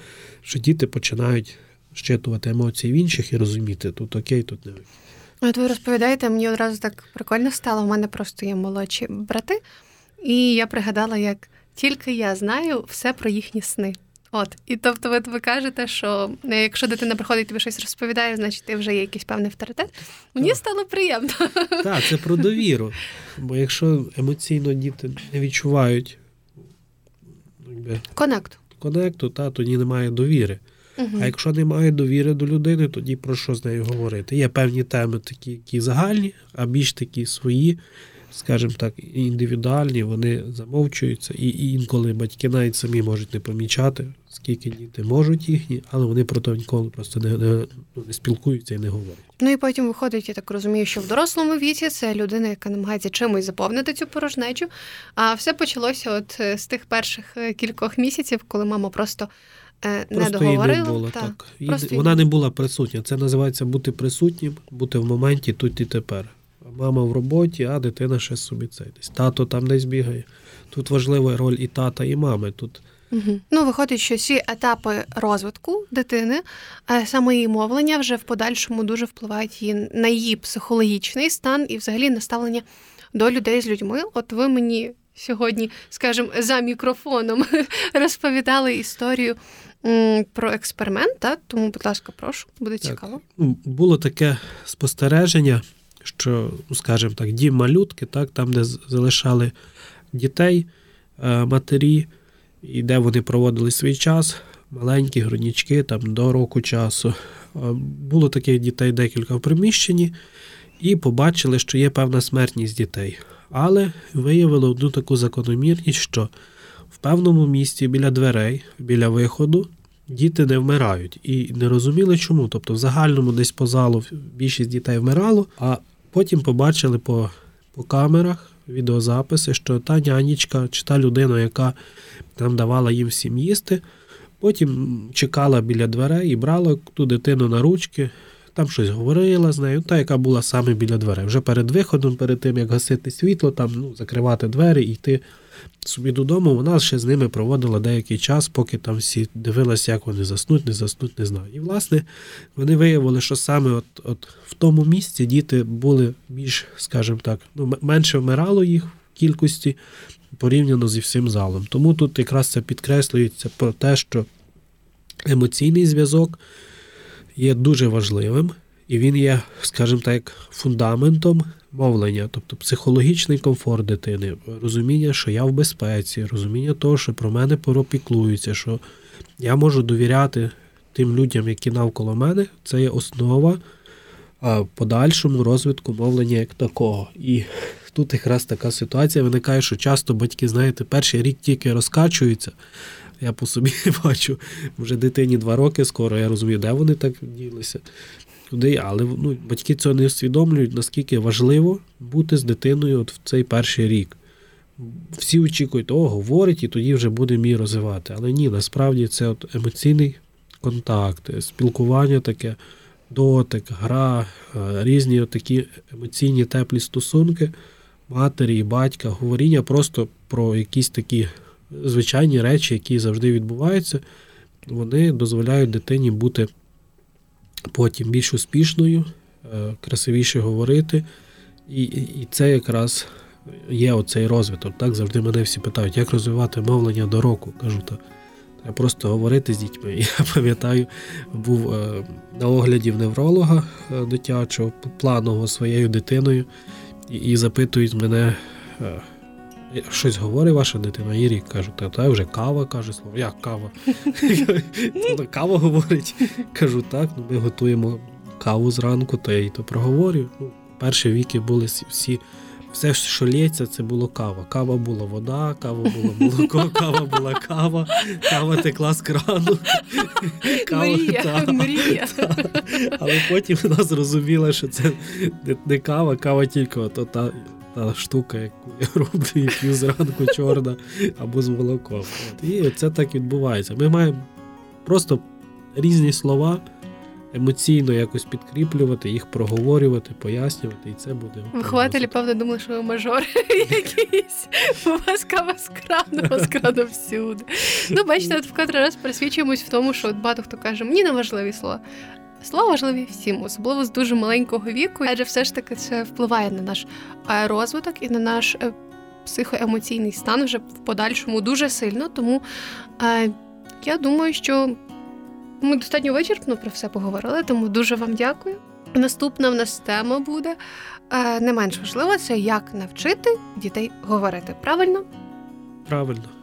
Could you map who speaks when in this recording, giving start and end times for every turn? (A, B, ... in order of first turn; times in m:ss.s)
0:00.4-0:05.0 A
0:05.4-0:09.6 B
0:10.2-0:22.6 B
0:21.8-0:26.2 A
0:27.6-0:28.0 A
0:28.2-0:28.6 B
0:28.7-0:30.6 A
0:31.0-0:31.3 B
0:31.1-0:37.8 A
0:38.3-0:49.2 A
0:49.4-0:59.3 B
0:59.8-1:02.3 B
1:00.1-1:12.8 A
1:13.1-1:33.2 B
1:32.8-1:39.5 A
1:40.1-1:40.7 A
1:41.2-1:42.1 A
1:42.6-1:50.1 A
1:50.8-1:56.3 A
1:56.9-2:11.8 A
2:12.4-2:13.8 A
2:14.4-2:25.2 A
2:25.8-2:39.8 A
2:40.3-2:44.3 A
2:45.3-2:46.4 A
2:47.4-2:58.8 A
2:59.4-3:03.6 A
3:04.4-3:12.5 A
3:13.2-3:17.8 A
3:18.5-3:24.2 A
3:24.8-3:32.6 A
3:33.1-3:37.5 A
3:38.1-3:44.0 A
3:44.7-3:46.5 A
3:47.7-3:51.0 A
3:51.7-3:58.0 A
3:58.6-4:06.5 A
4:07.1-4:09.1 A
4:09.7-4:44.2 A
4:30.4-4:33.0 B
4:44.8-4:46.6 A
4:47.3-4:52.1 A
4:51.5-5:01.8 B
5:02.4-5:08.7 B
5:09.2-5:12.4 B
5:13.0-5:14.8 B
5:15.6-5:20.6 B
5:21.1-5:25.0 B
5:25.8-5:26.3 A